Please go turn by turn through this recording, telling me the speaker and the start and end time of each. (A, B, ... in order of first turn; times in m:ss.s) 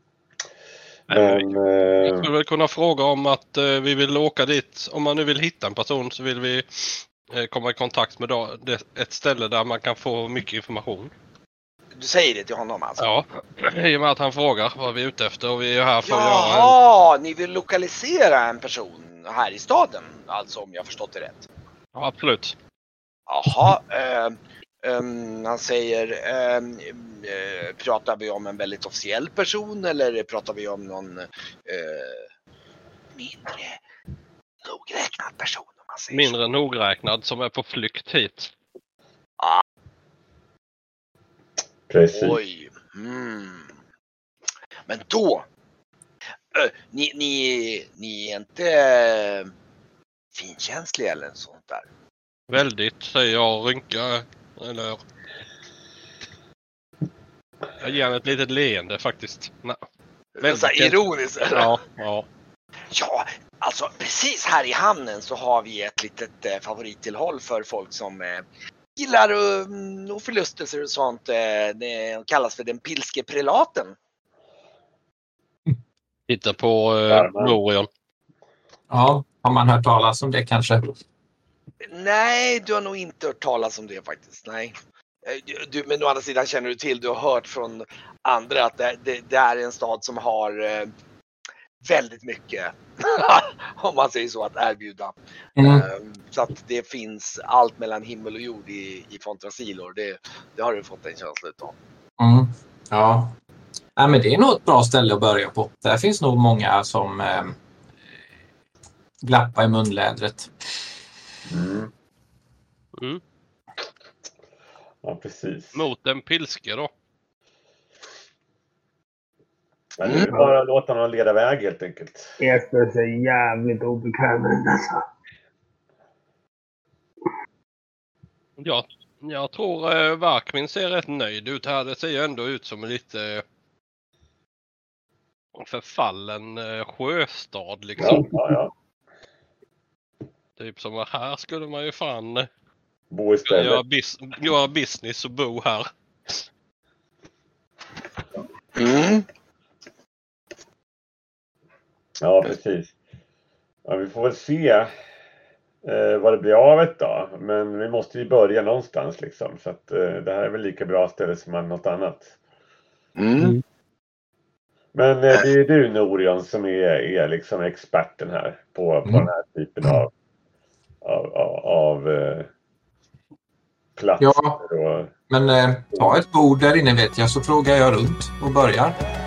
0:01.1-0:02.3 A
0:01.1-0:01.5 B
0:02.0-0:11.1 B
0:12.0-0:13.0 C
0:13.0-0:16.7 B
0:16.0-0:21.5 C
0:22.0-0:22.6 B
0:23.3-0:32.3 C
0:33.2-0:33.8 C
0:34.6-0:36.4 C
0:36.1-0:38.5 B
0:41.9-0:42.4 A
0:42.1-0:43.8 C
0:44.9-0:45.4 C
0:46.5-0:49.5 C
0:50.3-0:51.9 C
0:52.5-0:55.0 B
0:57.8-0:59.8 B
1:00.4-1:01.8 C
1:00.4-1:01.0 B
1:01.5-1:02.3 B
1:02.9-1:08.4 C
1:09.0-1:14.0 C
1:16.3-1:17.9 B
1:17.1-1:17.6 A
1:18.9-1:20.9 D
1:21.9-1:30.9 C
1:31.8-1:41.8 C
1:35.6-1:35.9 D
1:42.2-1:43.4 D
1:44.0-1:47.6 D
1:49.2-1:50.5 D
1:51.5-1:51.9 A
1:55.0-1:55.8 A
1:55.7-1:56.9 B
2:00.0-2:02.4 A
2:02.4-2:05.0 E
2:08.6-2:13.4 B
2:15.6-2:18.3 B
2:18.0-2:18.7 A
2:20.6-2:22.5 B
2:23.1-2:23.8 A
2:23.5-2:25.9 B
2:28.8-2:29.3 C
2:32.2-2:32.9 A
2:33.9-2:34.9 A
2:35.8-2:42.3 A
2:43.2-2:43.6 C
2:45.0-2:50.1 A
2:51.0-2:52.5 A
2:54.0-2:55.1 A
2:54.2-2:54.6 D
2:55.3-2:59.0 D